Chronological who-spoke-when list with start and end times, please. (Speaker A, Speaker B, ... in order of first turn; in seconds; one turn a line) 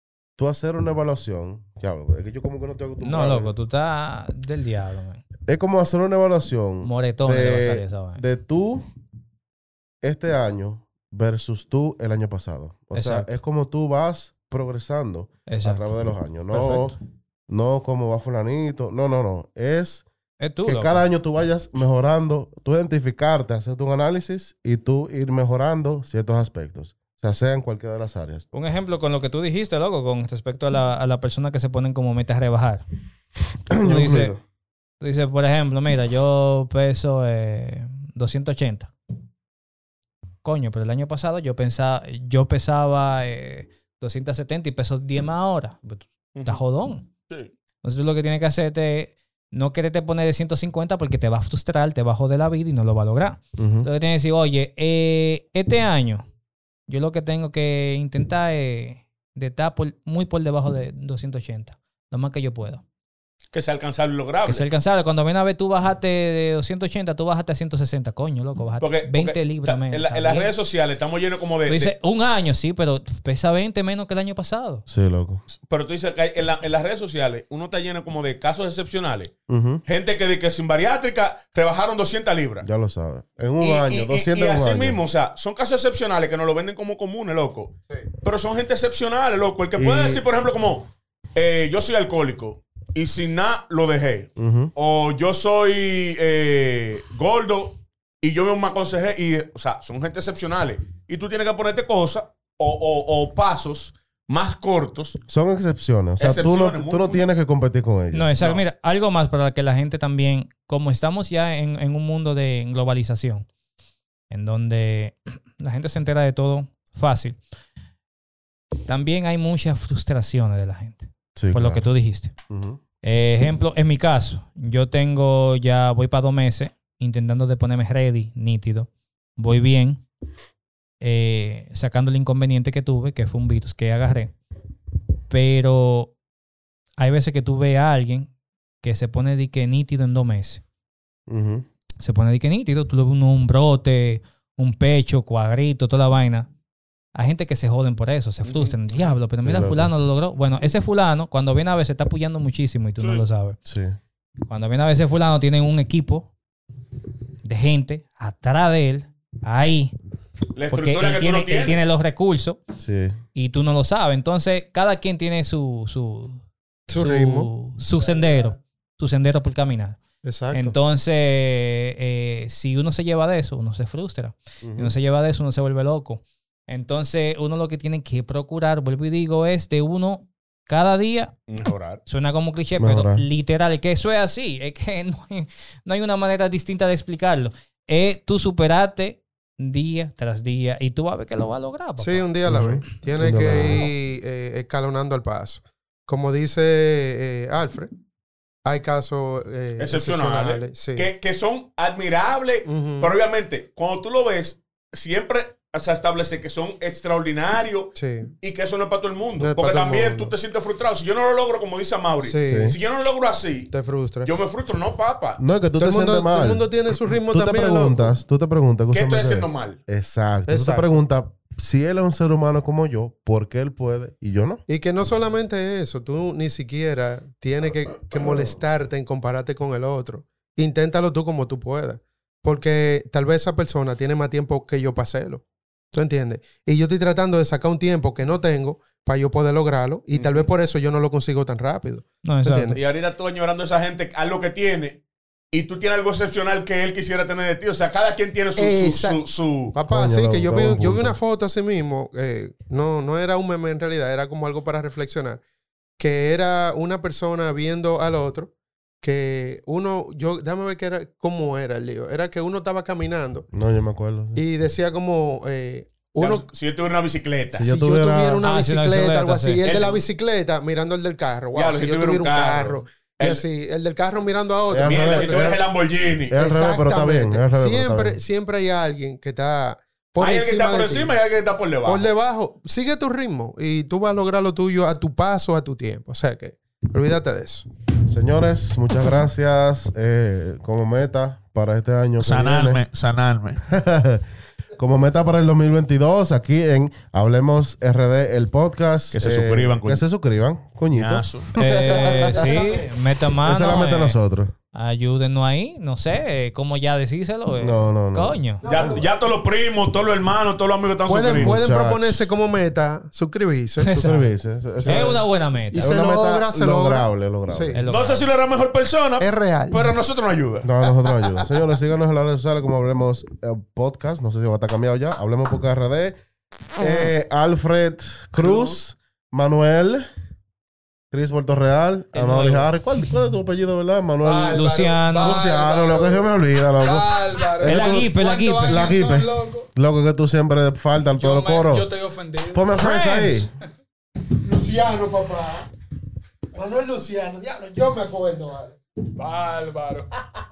Speaker A: 0.4-3.5
Speaker B: 3.0-5.2
Speaker A: 5.5-8.8
Speaker B: 6.8-8.2
Speaker A: 10.0-17.0
Speaker B: 12.9-13.3
Speaker B: 15.5-15.9
Speaker B: 16.5-17.0
Speaker A: 17.5-20.1
Speaker B: 20.4-21.0
Speaker A: 20.6-28.5
Speaker B: 28.5-32.8
Speaker A: 33.7-34.4
Speaker B: 33.8-34.3
Speaker B: 35.0-38.9
Speaker B: 40.4-47.1
Speaker C: 46.4-46.6
Speaker B: 47.8-56.2
Speaker A: 53.6-53.9
Speaker B: 56.9-62.8
Speaker C: 63.5-64.7
Speaker B: 64.5-70.5
Speaker C: 68.8-71.9
Speaker B: 71.7-74.8
Speaker A: 74.9-75.4
Speaker C: 75.7-79.3
Speaker A: 79.5-79.8
Speaker C: 79.9-82.7
Speaker A: 82.6-85.0
Speaker C: 83.6-105.2
Speaker A: 89.8-90.2
Speaker A: 94.4-94.7
Speaker A: 105.3-108.3
Speaker C: 106.2-107.2
Speaker B: 108.1-113.5
Speaker B: 114.3-117.4
Speaker B: 118.8-122.3
Speaker A: 121.4-121.9
Speaker A: 122.5-122.8
Speaker B: 123.0-130.0
Speaker B: 131.0-134.3
Speaker B: 135.3-136.1
Speaker B: 137.0-138.3
Speaker B: 138.8-140.6
Speaker A: 141.3-141.7
Speaker B: 142.0-146.5
Speaker B: 147.2-153.6
Speaker C: 148.4-149.2
Speaker A: 149.4-149.9
Speaker C: 153.0-153.2
Speaker A: 153.7-154.0
Speaker B: 154.5-156.3
Speaker B: 157.4-159.9
Speaker C: 160.6-161.8
Speaker B: 160.7-162.6
Speaker A: 162.8-163.2
Speaker B: 163.3-166.4
Speaker D: 166.9-167.5
Speaker B: 166.9-170.0
Speaker D: 170.2-170.7
Speaker B: 170.5-181.4
Speaker A: 174.6-174.9
Speaker C: 181.5-182.0
Speaker B: 182.1-192.3
Speaker A: 182.8-183.2
Speaker D: 192.0-197.9
Speaker A: 192.5-193.9
Speaker D: 198.7-201.1
Speaker C: 199.8-215.4
Speaker D: 202.7-203.1
Speaker D: 208.0-208.3
Speaker D: 209.4-210.3
Speaker D: 212.2-212.8
Speaker A: 212.5-212.8
Speaker D: 213.7-214.4
Speaker A: 215.4-216.7
Speaker D: 215.8-218.1
Speaker A: 217.3-224.6
Speaker C: 218.9-219.8
Speaker D: 220.5-220.9
Speaker D: 224.7-242.8
Speaker C: 240.1-240.5
Speaker B: 242.2-242.8
Speaker C: 242.7-245.0
Speaker C: 245.5-249.8
Speaker D: 248.6-255.4
Speaker A: 249.9-251.2
Speaker D: 256.0-258.5
Speaker D: 259.0-263.5
Speaker A: 263.5-264.4
Speaker D: 264.4-266.5
Speaker C: 266.2-267.7
Speaker A: 267.5-268.5
Speaker D: 267.6-275.6
Speaker B: 268.4-269.6
Speaker C: 269.6-270.0
Speaker C: 271.6-273.4
Speaker A: 274.7-275.6
Speaker C: 274.9-276.4
Speaker A: 276.3-278.2
Speaker D: 276.3-281.2
Speaker C: 280.2-282.1
Speaker D: 281.9-287.7
Speaker A: 288.1-292.8
Speaker C: 292.2-293.7
Speaker A: 293.7-294.2
Speaker A: 294.8-302.7
Speaker C: 299.1-300.0
Speaker C: 300.9-301.5
Speaker B: 301.6-304.2
Speaker D: 301.9-302.9
Speaker A: 303.4-304.5
Speaker B: 304.7-308.6
Speaker A: 307.6-308.4
Speaker D: 308.6-309.1
Speaker C: 308.6-311.6
Speaker D: 311.1-314.0
Speaker A: 311.3-312.2
Speaker B: 313.8-314.3
Speaker A: 313.9-315.2
Speaker B: 314.8-315.9
Speaker D: 314.8-317.8
Speaker A: 315.8-317.8
Speaker B: 317.8-318.3
Speaker C: 317.9-320.7
Speaker D: 319.2-319.9
Speaker A: 320.6-326.1
Speaker A: 326.8-330.1
Speaker C: 328.4-328.8
Speaker A: 331.1-338.1
Speaker B: 332.1-332.7
Speaker C: 334.2-336.1
Speaker E: 334.2-336.2
Speaker B: 334.5-335.4
Speaker E: 336.8-339.7
Speaker B: 337.6-338.9
Speaker A: 338.7-341.9
Speaker E: 341.2-342.8
Speaker A: 342.5-343.5
Speaker B: 342.7-343.5
Speaker D: 344.2-345.7
Speaker D: 346.5-348.8
Speaker E: 349.2-350.1